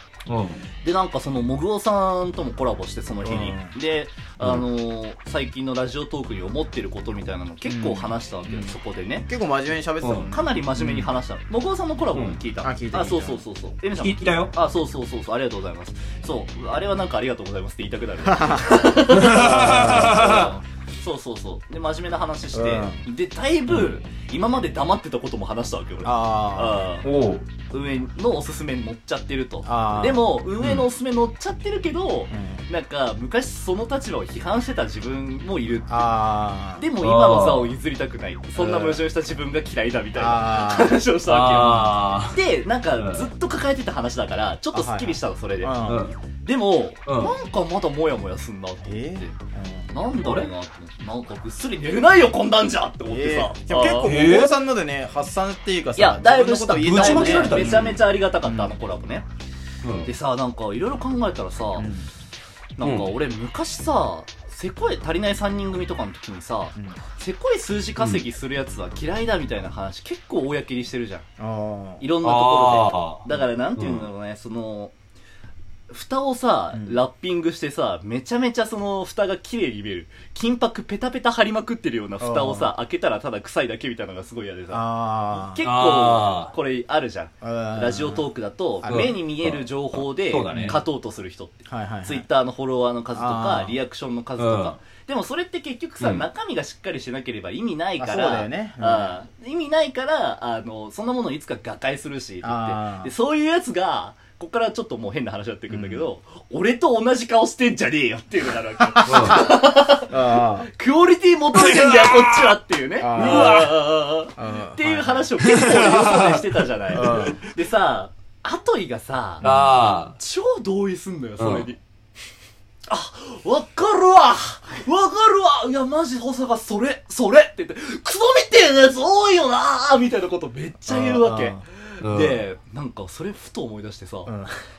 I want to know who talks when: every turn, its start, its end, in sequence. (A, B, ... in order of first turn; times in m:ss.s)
0:00.3-0:00.6 A
0:00.8-0:09.3 B
0:03.2-0:03.7 C
0:07.6-0:08.8 C
0:09.3-0:10.6 C
0:10.0-0:11.1 A
0:10.3-0:27.1 B
0:12.6-0:13.4 C
0:14.0-0:14.6 A
0:18.2-0:20.6 C
0:19.1-0:20.5 A
0:22.5-0:23.0 C
0:23.7-0:24.0 A
0:26.0-0:26.8 C
0:27.0-0:27.5 A
0:27.7-0:36.1 B
0:29.7-0:30.2 C
0:30.6-0:30.9 A
0:32.3-0:32.6 C
0:35.9-0:36.9 C
0:36.8-0:45.8 B
0:37.0-0:37.7 A
0:38.6-0:39.0 C
0:40.2-0:41.0 C
0:41.3-0:42.4 A
0:43.0-0:43.3 A
0:44.7-0:46.1 C
0:45.9-0:46.2 A
0:46.4-0:49.4 B
0:47.1-0:47.4 A
0:48.8-0:49.9 C
0:49.9-0:54.1 B
0:50.2-0:50.5 A
0:53.1-0:58.7 C
0:54.0-0:54.5 A
0:56.0-0:59.2 B
0:56.8-0:58.0 A
0:59.8-1:00.1 A
1:00.0-1:01.9 B
1:01.8-1:02.1 C
1:02.8-1:11.3 B
1:02.8-1:03.1 A
1:11.4-1:12.0 C
1:12.0-1:14.9 B
1:12.2-1:13.2 A
1:13.8-1:14.1 A
1:15.9-1:50.1 B
1:16.7-1:17.0 C
1:22.2-1:22.8 C
1:24.7-1:25.6 C
1:25.6-1:26.5 A
1:27.4-1:28.2 C
1:28.8-1:29.1 C
1:28.9-1:30.8 A
1:30.5-1:30.8 C
1:31.7-1:32.2 C
1:33.2-1:33.8 C
1:34.4-1:34.8 A
1:38.0-1:39.1 C
1:42.4-1:43.1 C
1:45.7-1:46.0 C
1:49.0-1:49.5 C
1:49.0-1:49.5 A
1:50.1-1:50.7 C
1:50.7-1:59.5 B
1:51.6-1:52.5 A
1:53.0-1:53.7 C
1:53.2-1:53.7 A
1:54.4-1:55.2 C
1:55.4-1:56.4 A
1:56.9-1:57.4 C
1:59.4-1:59.7 C
1:59.4-2:00.2 A
2:00.2-2:01.8 B
2:01.4-2:01.7 A
2:02.9-2:14.3 B
2:10.9-2:11.6 C
2:12.0-2:12.4 A
2:14.3-2:14.5 C